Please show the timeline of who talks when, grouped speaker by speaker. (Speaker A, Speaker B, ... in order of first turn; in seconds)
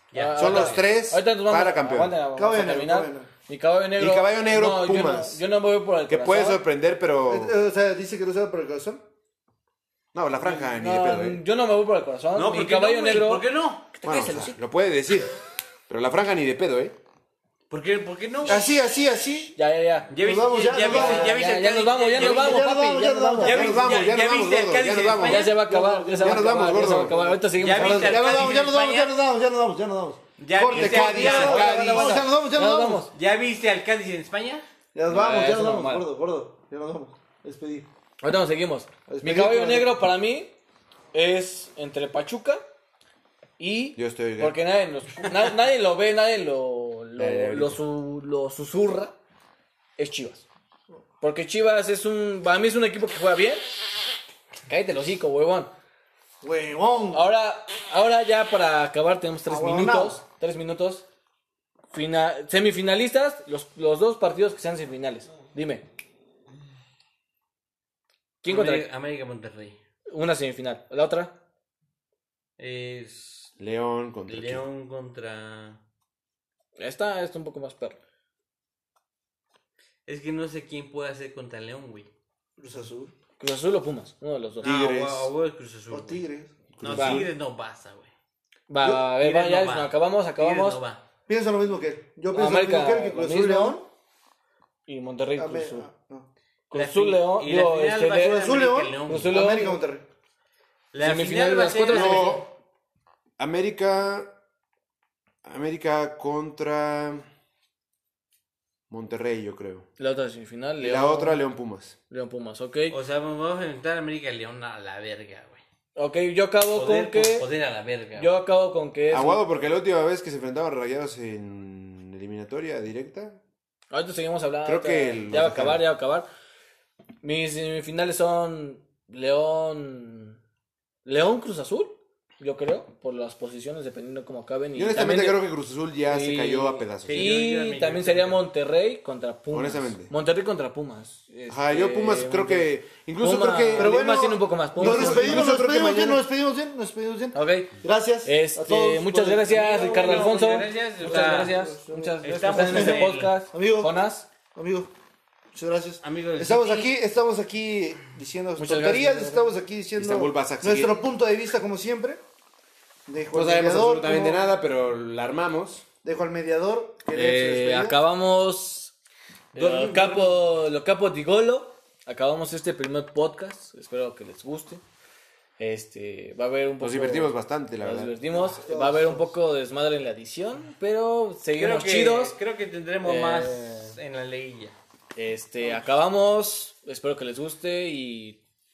Speaker A: 0.1-0.8, 12.3-14.4, 17.7-18.7, 20.1-22.6, 23.4-25.6, 27.6-29.1, 30.4-31.7, 33.1-34.6, 68.5-69.8, 72.6-73.5, 74.3-75.8, 80.0-82.1, 84.6-86.2, 86.8-88.1, 88.8-91.0, 96.7-99.4, 100.9-102.4, 112.9-115.6, 116.7-118.3, 137.1-138.4, 149.5-151.6, 152.2-153.3, 156.0-156.9, 169.5-170.3, 181.6-184.8
Speaker B: 0.1-6.6, 10.4-14.5, 19.6-20.1, 20.8-23.8, 25.2-28.2, 31.4-33.1, 35.1-36.0, 38.2-40.5, 41.1-42.6, 43.6-49.1, 50.0-50.4, 51.2-53.6, 54.7-55.7, 57.1-61.0, 61.9-65.8, 68.4-68.9, 70.1-71.3, 76.8-78.0, 83.4-84.7, 86.9-87.2, 88.7-90.8, 92.3-93.8, 94.9-95.9, 96.7-98.5, 99.0-99.8, 101.0-102.4, 110.0-111.4, 112.1-113.0, 116.0-117.5, 118.2-119.4, 123.9-126.3, 127.2-130.4, 131.0-135.4, 136.1-145.5, 147.3-154.3, 158.6-159.4, 167.1-168.9, 169.5-174.8, 175.6-182.3, 183.0-183.9, 185.2-188.4
Speaker C: 0.3-2.1, 4.0-5.4, 6.1-7.5, 10.1-11.4, 14.0-15.3, 15.9-16.9, 23.4-25.4, 26.2-27.3, 30.7-32.2, 44.0-44.6, 47.2-47.8, 73.6-74.6, 84.6-85.3, 86.7-87.3, 101.9-102.5, 103.4-104.3, 105.4-107.3, 108.9-109.8, 110.8-111.9, 119.1-123.4, 124.6-125.8, 134.8-137.3, 139.5-140.1, 141.5-143.9, 144.8-146.2, 160.0-161.1, 163.3-165.8, 176.8-178.2
Speaker D: 2.3-3.3, 7.3-9.0, 18.4-19.6, 20.1-21.4, 22.1-23.9, 25.1-33.0, 34.9-37.9, 39.1-40.1, 56.4-57.3, 59.5-60.2, 82.6-83.1, 85.9-86.5, 91.3-93.9, 95.3-96.3, 98.3-100.0, 143.7-149.5, 151.0-153.9, 154.5-154.9, 155.5-162.2, 163.1-164.4, 166.0-168.0, 178.3-179.3